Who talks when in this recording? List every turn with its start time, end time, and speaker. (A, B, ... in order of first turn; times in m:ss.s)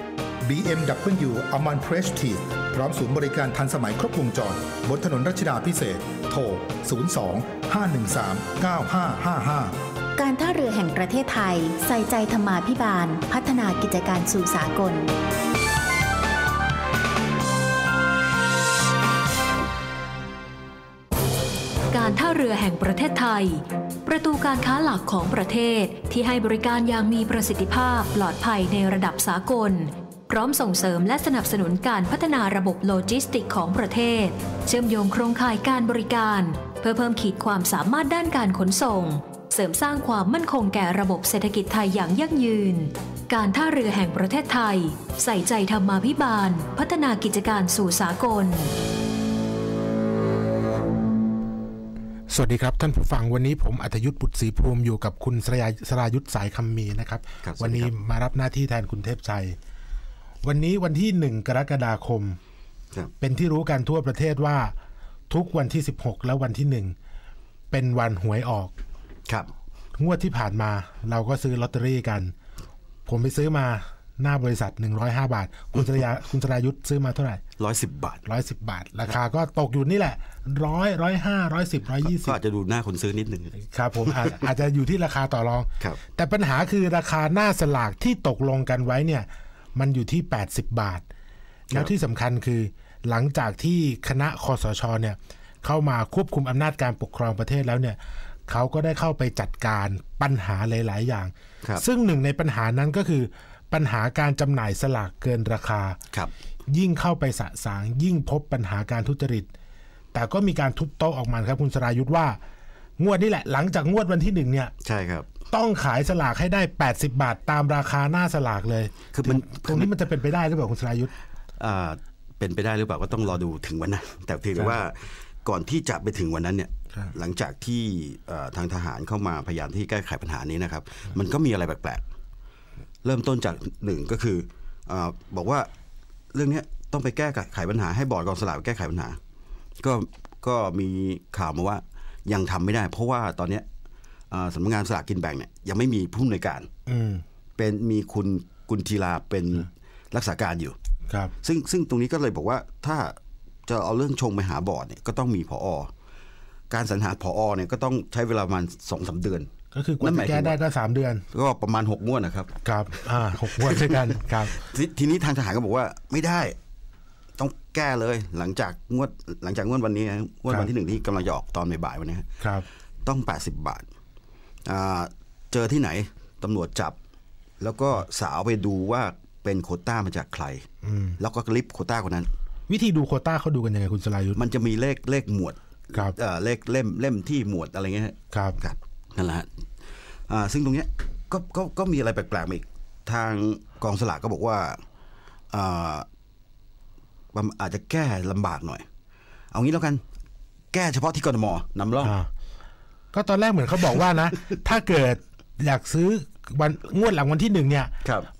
0:00.4-0:09.8 A
0:10.2-0:15.1 B
0:21.9-0:48.7 C
0:52.3-0:59.6 D
0:57.4-0:57.9 E
1:00.4-1:02.4 D
1:03.2-1:04.7 D
1:05.3-1:07.0 D
1:07.7-1:08.7 D
1:10.0-1:12.3 D
1:13.1-1:17.4 D
1:17.6-1:18.2 E
1:18.2-1:22.4 D
1:22.0-1:24.5 E
1:23.7-1:31.0 D
1:31.7-1:46.0 D
1:46.7-1:49.5 D
1:50.1-1:52.4 D
1:53.0-1:54.7 D
1:54.8-1:55.3 E
1:55.5-2:01.1 D
1:59.1-1:59.9 E
2:01.6-2:12.0 E
2:13.0-2:15.7 E
2:16.3-2:19.2 E
2:19.8-2:23.7 E
2:24.3-2:26.7 E
2:26.9-2:27.2 D
2:27.6-2:30.8 E
2:31.4-2:35.9 E
2:36.7-2:40.6 E
2:39.7-2:41.2 D
2:41.3-2:46.6 E
2:42.6-2:44.6 D
2:47.4-2:52.3 E
2:53.0-2:53.9 E
2:54.6-2:57.0 E
2:57.6-3:02.3 E
3:00.8-3:01.2 D
3:02.7-3:04.4 D
3:04.3-3:14.8 E
3:08.3-3:08.6 D
3:15.5-3:16.1 E
3:17.3-3:18.9 E
3:19.5-3:20.0 E
3:20.7-3:22.1 E
3:22.0-3:22.3 D
3:23.1-3:27.9 D